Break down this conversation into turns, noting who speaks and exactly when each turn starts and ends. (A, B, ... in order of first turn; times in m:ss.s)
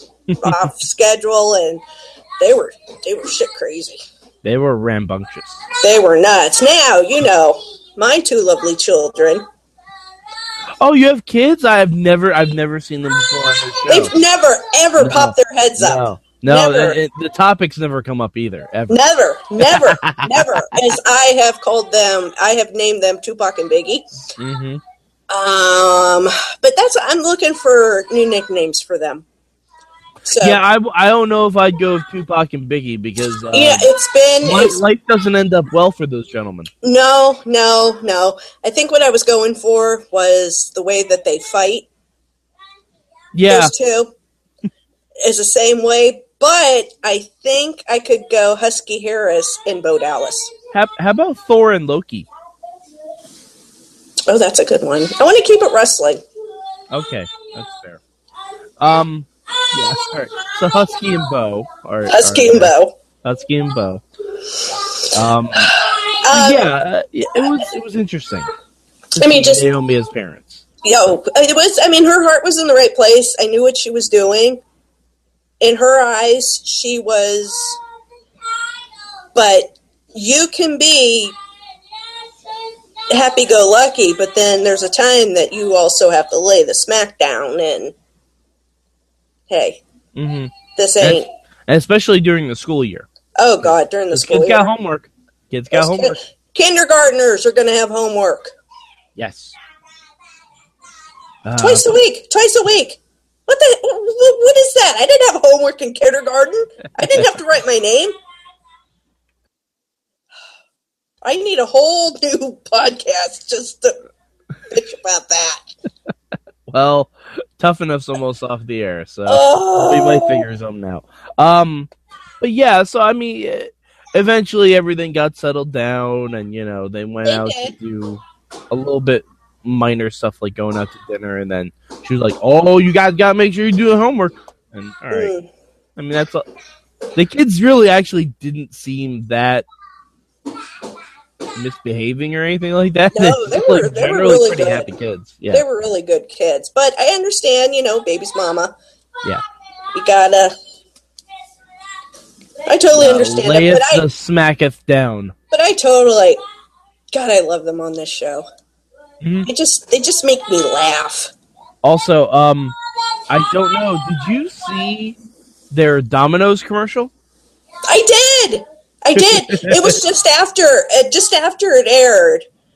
0:00.3-0:00.7 A
0:00.4-0:01.8 B
0:02.4-0:04.0 B
0:04.4-0:05.6 A
0:05.8-0:09.5 B
0:10.8-0:14.1 A
0:13.9-0:17.0 B
0:15.0-0:19.0 A
0:18.9-0:24.0 B
0:19.6-0:20.8 A
0:24.4-0:24.8 A
0:25.3-0:29.2 B
0:30.3-0:30.6 B
0:30.4-0:33.9 A
0:33.5-0:34.8 B
0:34.4-0:36.7 A
0:36.8-0:41.9 B
0:43.3-0:43.7 A
0:43.5-0:44.1 B
0:45.2-0:50.5 B
0:50.7-0:52.3 A
0:54.3-0:56.2 B
0:56.9-0:58.0 A
0:58.8-1:04.0 A
1:02.1-1:03.0 B
1:05.1-1:05.8 A
1:05.8-1:06.7 B
1:06.3-1:08.5 A
1:09.2-1:10.6 A
1:09.2-1:09.7 B
1:10.8-1:14.6 B
1:15.6-1:17.8 B
1:19.4-1:21.4 B
1:23.1-1:27.9 B
1:29.5-1:29.8 B
1:30.2-1:33.1 A
1:30.8-1:31.3 B
1:33.4-1:34.7 B
1:33.6-1:36.2 A
1:35.7-1:38.5 B
1:39.2-1:39.6 A
1:41.4-1:41.9 A
1:41.6-1:48.2 B
1:51.2-1:54.0 B
1:54.7-1:55.6 B
1:56.7-2:01.9 A
1:59.3-2:00.4 B
2:02.4-2:15.3 A
2:07.3-2:07.7 B
2:15.1-2:15.5 B
2:16.0-2:16.4 A
2:17.2-2:19.7 A
2:21.6-2:25.6 A
2:23.1-2:24.9 B
2:25.5-2:28.7 B
2:29.9-2:30.6 B
2:32.7-2:34.0 B
2:33.0-2:35.4 A
2:35.5-2:36.4 B
2:37.1-2:38.4 B
2:39.2-2:39.5 A
2:39.5-2:41.3 B
2:41.8-2:42.8 A
2:43.3-2:45.2 A
2:45.7-2:47.1 A
2:47.9-2:52.4 B
2:49.2-2:50.0 A